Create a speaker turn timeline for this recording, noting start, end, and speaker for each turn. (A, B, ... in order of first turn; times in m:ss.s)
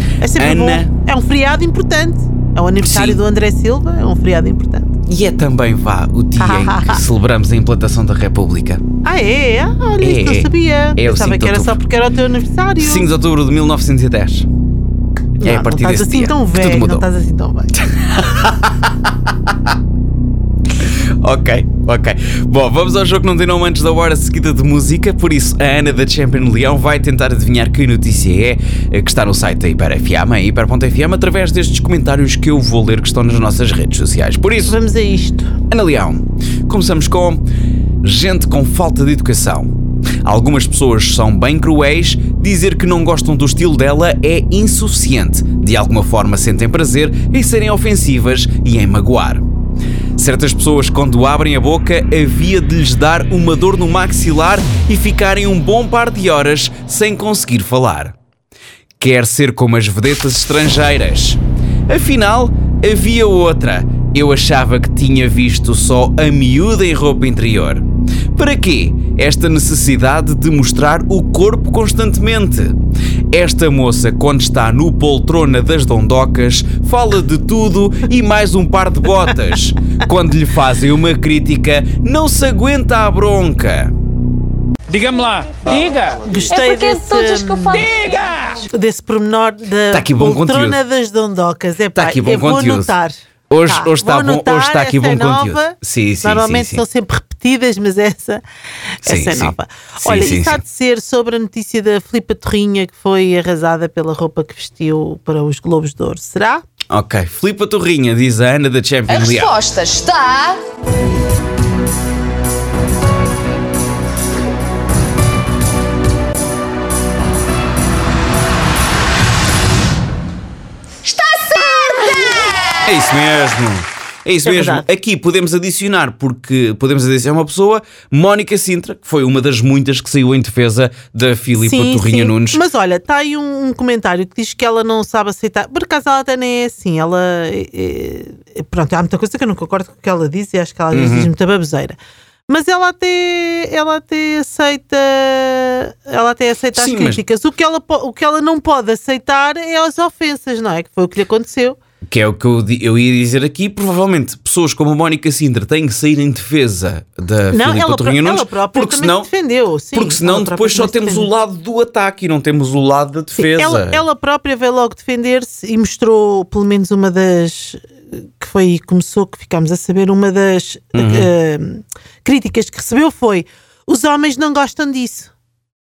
0:00.2-0:05.0 A
0:00.4-0:00.9 B
0:02.8-0:03.2 B
0:05.1-0:08.8 B
0:06.4-0:07.0 A
0:09.0-0:13.1 A
0:10.0-0:11.8 B
0:12.8-0:14.5 B
0:15.4-0:17.8 A
0:15.4-0:17.0 B
0:18.0-0:19.5 B
0:20.8-0:34.8 B
0:34.6-0:35.6 A
0:35.7-0:37.4 B
0:38.0-0:39.7 B
0:40.2-0:49.4 B
0:50.2-0:58.2 B
0:59.0-1:12.8 B
1:13.3-1:23.9 B
1:24.9-1:26.3 C
1:26.2-1:27.9 A
1:26.4-1:28.0 D
1:27.9-1:28.5 C
1:28.4-1:33.1 A
1:29.9-1:30.8 B
1:32.0-1:32.9 B
1:33.5-1:36.8 B
1:33.6-1:38.4 A
1:39.0-1:40.6 B
1:39.0-1:46.6 A
1:46.9-1:49.6 B
1:49.1-1:50.6 D
2:01.0-2:02.6 D
2:02.8-2:12.6 B
2:04.4-2:04.9 A
2:11.5-2:22.0 A
2:20.9-2:21.3 B
2:22.5-2:31.8 A
2:26.8-2:27.2 B
2:32.1-2:39.3 B
2:37.5-2:41.3 A
2:39.9-2:44.0 B
2:43.4-2:55.3 A
2:50.9-2:51.3 B